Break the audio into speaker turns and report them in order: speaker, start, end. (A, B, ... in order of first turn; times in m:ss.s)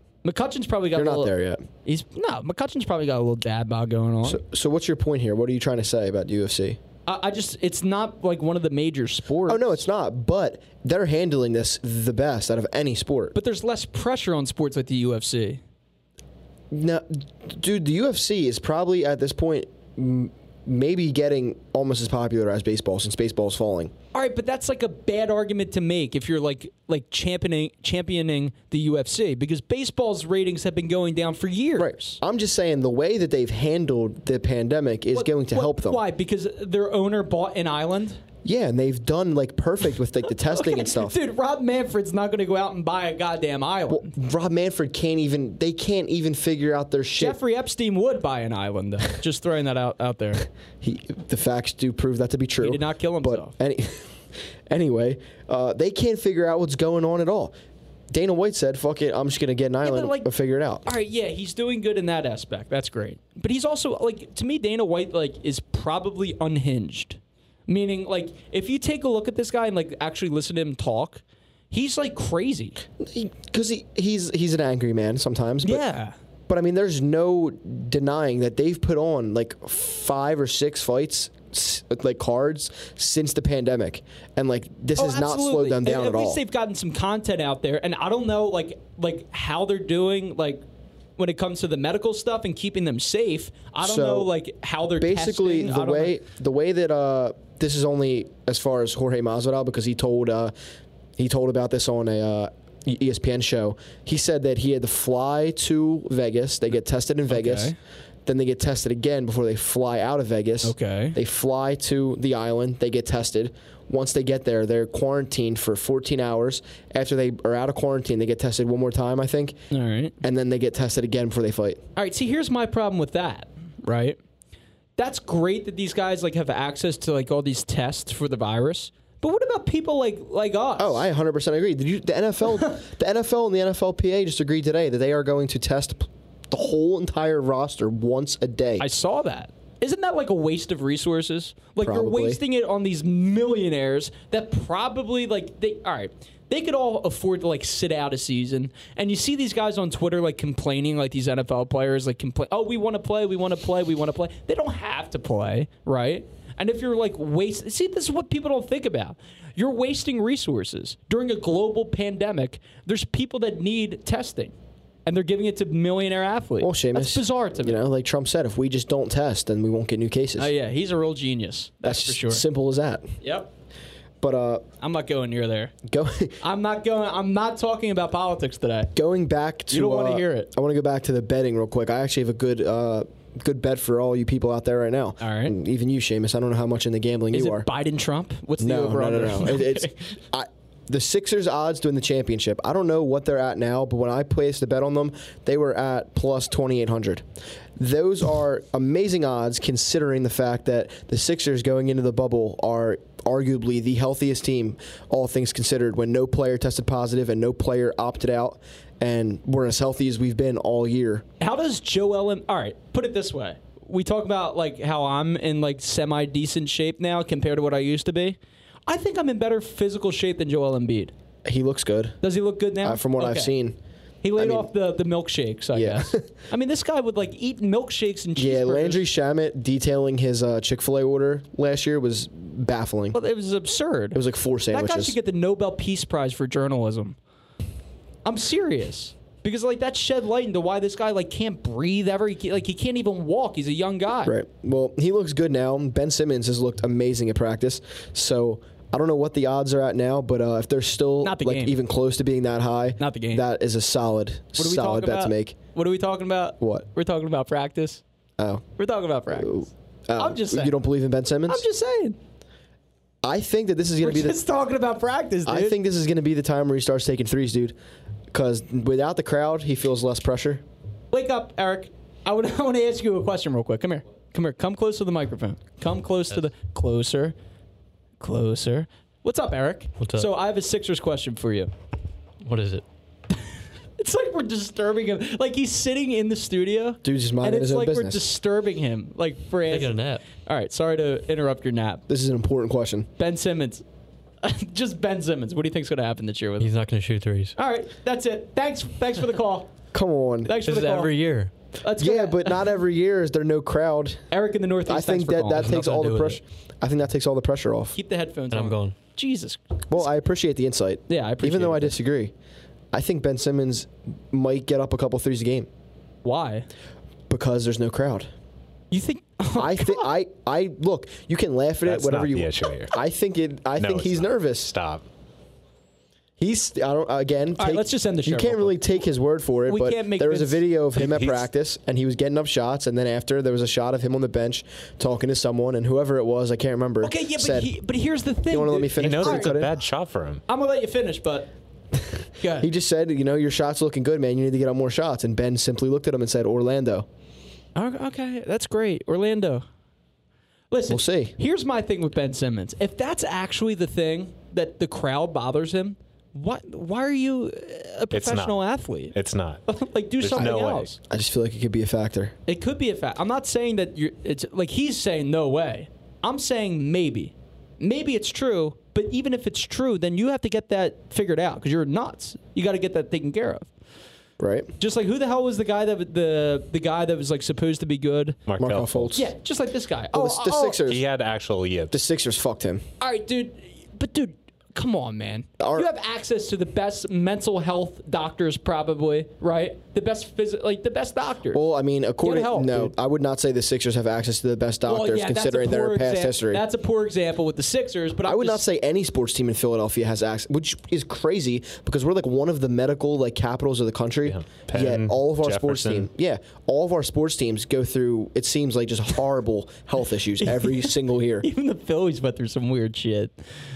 0:00.2-0:01.3 A
0:00.9-0:01.6 B
0:01.8-0:04.4 A
0:04.2-0:06.8 B
0:07.1-0:09.8 A
0:09.5-0:13.4 B
0:13.3-0:15.6 A
0:16.7-0:23.9 B
0:24.1-0:32.2 A
0:31.8-0:36.0 B
0:35.1-0:38.2 A
0:38.4-0:41.2 B
0:40.5-0:44.1 A
0:43.9-0:47.4 B
0:47.2-0:50.5 A
0:50.8-0:54.1 B
0:52.6-0:53.5 A
0:54.7-0:57.5 B
0:58.1-1:00.8 B
0:59.8-1:00.3 A
1:00.8-1:12.8 A
1:13.0-1:15.9 B
1:15.6-1:16.1 A
1:16.5-1:26.4 B
1:25.0-1:30.6 A
1:31.2-1:36.2 A
1:33.8-1:34.3 B
1:35.0-1:40.5 B
1:41.2-1:47.7 B
1:47.3-1:47.8 A
1:48.3-1:59.6 B
1:50.6-1:51.2 A
1:59.7-2:00.2 A
2:00.2-2:01.8 B
2:02.0-2:04.2 A
2:05.0-2:11.0 A
2:10.8-2:18.8 B
2:18.8-2:44.5 A
2:21.8-2:22.4 B
2:45.1-2:47.8 A
2:46.6-2:50.5 B
2:50.4-2:52.4 A
2:51.8-2:53.1 B
2:53.2-2:53.5 A
2:54.2-2:54.6 B
2:54.8-2:55.7 A
2:55.8-2:56.4 B
2:56.4-2:58.9 A
2:59.0-3:07.7 B
2:59.7-3:00.5 A
3:05.2-3:05.6 A
3:07.3-3:10.0 A
3:08.6-3:17.2 B
3:17.8-3:31.2 B
3:31.4-3:41.1 A
3:41.5-3:42.2 B
3:42.2-3:43.6 A
3:42.8-3:43.8 B
3:44.2-3:49.1 A
3:44.4-3:44.7 B
3:45.7-3:46.3 B
3:48.4-3:53.2 B
3:53.1-3:54.2 A
3:54.1-3:55.2 B
3:54.7-3:57.2 A
3:58.2-4:04.4 A
4:04.3-4:15.6 B
4:11.2-4:11.8 A
4:13.0-4:13.4 A
4:14.6-4:18.0 A
4:16.6-4:16.9 B
4:18.4-4:18.6 B
4:18.8-4:19.6 A
4:19.3-4:21.6 B
4:20.2-4:20.8 A
4:21.5-4:22.2 A
4:23.2-4:24.4 B
4:24.0-4:25.8 A
4:25.5-4:27.8 B
4:28.3-4:30.6 B
4:31.1-4:37.4 A
4:38.2-4:41.7 A
4:40.0-4:40.3 C
4:42.4-4:42.8 C
4:44.0-4:52.0 A
4:47.0-4:48.2 B
4:49.7-4:50.2 C
4:52.1-4:53.1 B
4:53.2-4:53.8 A
4:54.4-4:56.7 A
4:56.6-4:57.6 C
4:57.6-4:59.7 A
4:59.9-5:00.6 B
5:00.4-5:01.2 A
5:00.6-5:01.5 C
5:01.8-5:02.8 A
5:02.0-5:04.3 B
5:04.3-5:05.8 A
5:04.9-5:08.0 B
5:05.5-5:06.4 C
5:08.0-5:10.1 A
5:08.5-5:09.0 C
5:09.9-5:12.3 B
5:11.1-5:12.0 A
5:12.9-5:15.7 B
5:16.2-5:16.7 A
5:17.3-5:18.3 B
5:18.9-5:20.1 A
5:19.6-5:24.7 B
5:21.8-5:22.9 D
5:23.8-5:25.0 D
5:26.4-5:37.7 B
5:27.6-5:28.8 A
5:29.7-5:30.6 A
5:31.0-5:31.5 D
5:37.0-5:39.6 A
5:38.5-5:39.7 B
5:39.0-5:40.4 D
5:40.5-5:41.5 A
5:41.9-5:47.1 B
5:42.4-5:42.7 A
5:47.8-5:49.6 A
5:50.7-5:59.2 A
5:50.9-5:51.4 B
5:58.1-5:59.6 D
5:59.7-6:01.0 A
6:00.2-6:00.9 D
6:01.1-6:02.4 B
6:02.5-6:13.7 A
6:14.4-6:14.7 B
6:14.8-6:18.4 A
6:18.5-6:19.2 D
6:18.6-6:19.3 B
6:19.1-6:20.8 A
6:20.1-6:21.0 B
6:20.9-6:22.0 D
6:21.9-6:22.8 B
6:23.0-6:31.6 A
6:25.6-6:25.9 B
6:31.5-6:36.6 B
6:32.2-6:32.9 A
6:34.9-6:38.6 A
6:38.2-6:51.5 B
6:44.3-6:46.1 D
6:50.5-6:53.3 A